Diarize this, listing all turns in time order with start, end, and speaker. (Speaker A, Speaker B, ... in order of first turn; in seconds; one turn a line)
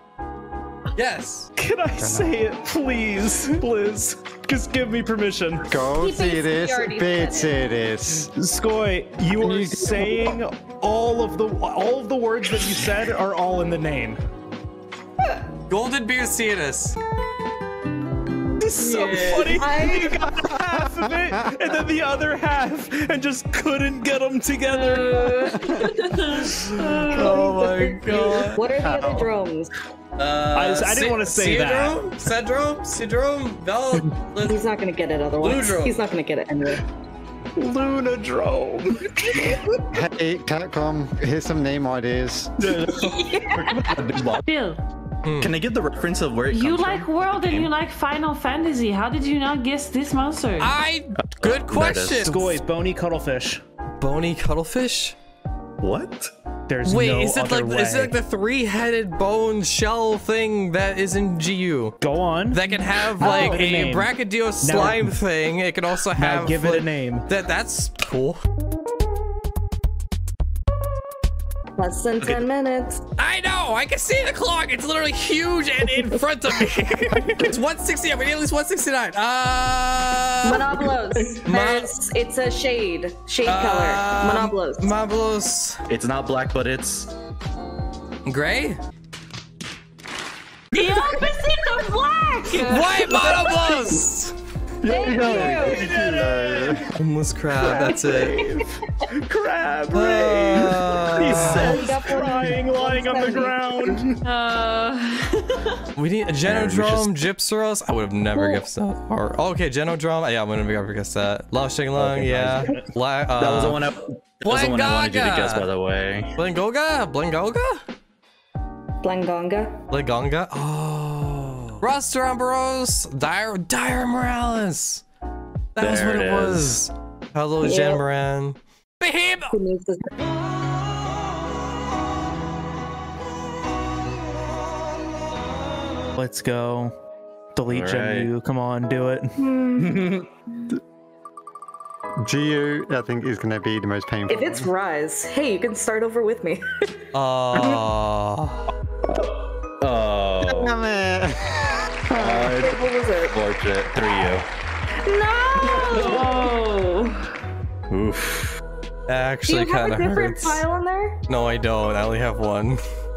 Speaker A: 0.9-1.5
Speaker B: 1.6-5.8
Speaker C: 2.0-2.4
Speaker C: 5.7-8.3
Speaker D: 5.9-7.6
Speaker B: 8.4-14.2
Speaker C: 9.4-10.3
Speaker A: 15.7-17.0
Speaker B: 18.6-25.6
Speaker E: 18.8-19.6
Speaker D: 19.3-20.3
Speaker C: 20.4-21.4
Speaker E: 24.8-27.4
Speaker D: 25.2-25.7
Speaker A: 26.3-28.6
Speaker D: 27.1-29.7
Speaker C: 28.8-29.3
Speaker A: 30.2-34.6
Speaker B: 30.5-32.0
Speaker D: 34.5-36.8
Speaker A: 35.4-36.0
Speaker B: 37.6-39.6
Speaker C: 39.9-42.5
Speaker F: 42.6-44.4
Speaker D: 43.1-44.0
Speaker E: 44.5-44.8
Speaker A: 45.2-45.5
Speaker F: 45.4-47.7
Speaker E: 46.5-50.7
Speaker A: 50.6-52.6
Speaker F: 51.2-52.4
Speaker B: 52.2-53.6
Speaker A: 54.0-55.2
Speaker F: 55.8-56.3
Speaker B: 56.7-58.2
Speaker A: 56.8-62.0
Speaker B: 62.0-62.6
Speaker A: 62.5-68.4
Speaker B: 63.2-65.2
Speaker D: 63.2-63.6
Speaker B: 66.2-67.3
Speaker D: 71.8-73.0
Speaker F: 72.2-72.5
Speaker A: 73.2-80.7
Speaker D: 80.4-84.9
Speaker A: 81.4-81.9
Speaker A: 83.5-85.8
Speaker F: 85.9-87.1
Speaker A: 88.3-88.8
Speaker E: 90.7-93.5
Speaker A: 92.6-94.3
Speaker F: 94.8-96.0
Speaker D: 94.8-95.9
Speaker C: 95.2-96.8
Speaker B: 95.4-96.8
Speaker A: 96.9-98.4
Speaker B: 97.6-104.2
Speaker D: 97.7-98.2
Speaker A: 99.9-101.8
Speaker F: 101.3-102.6
Speaker D: 101.3-103.7
Speaker E: 104.2-105.8
Speaker A: 106.0-113.8
Speaker F: 106.4-107.1
Speaker D: 108.3-108.6
Speaker F: 112.0-112.7
Speaker F: 113.4-116.3
Speaker A: 114.4-115.7
Speaker A: 116.3-117.8
Speaker D: 119.0-119.8
Speaker A: 119.9-125.0
Speaker A: 125.8-129.6
Speaker F: 125.8-126.8
Speaker D: 127.6-128.0
Speaker D: 129.5-130.1
Speaker B: 136.2-136.9
Speaker B: 137.6-139.4
Speaker F: 137.7-138.3
Speaker D: 139.4-140.1
Speaker F: 139.8-140.3
Speaker C: 142.2-144.7
Speaker D: 144.3-146.6
Speaker A: 147.1-148.7
Speaker F: 149.1-150.8
Speaker C: 150.5-151.4
Speaker D: 152.1-153.4
Speaker F: 152.1-154.5
Speaker D: 155.1-156.7
Speaker E: 155.9-157.2
Speaker F: 155.9-156.3
Speaker F: 157.9-158.6
Speaker A: 159.1-160.6
Speaker D: 159.5-161.2
Speaker A: 161.3-162.8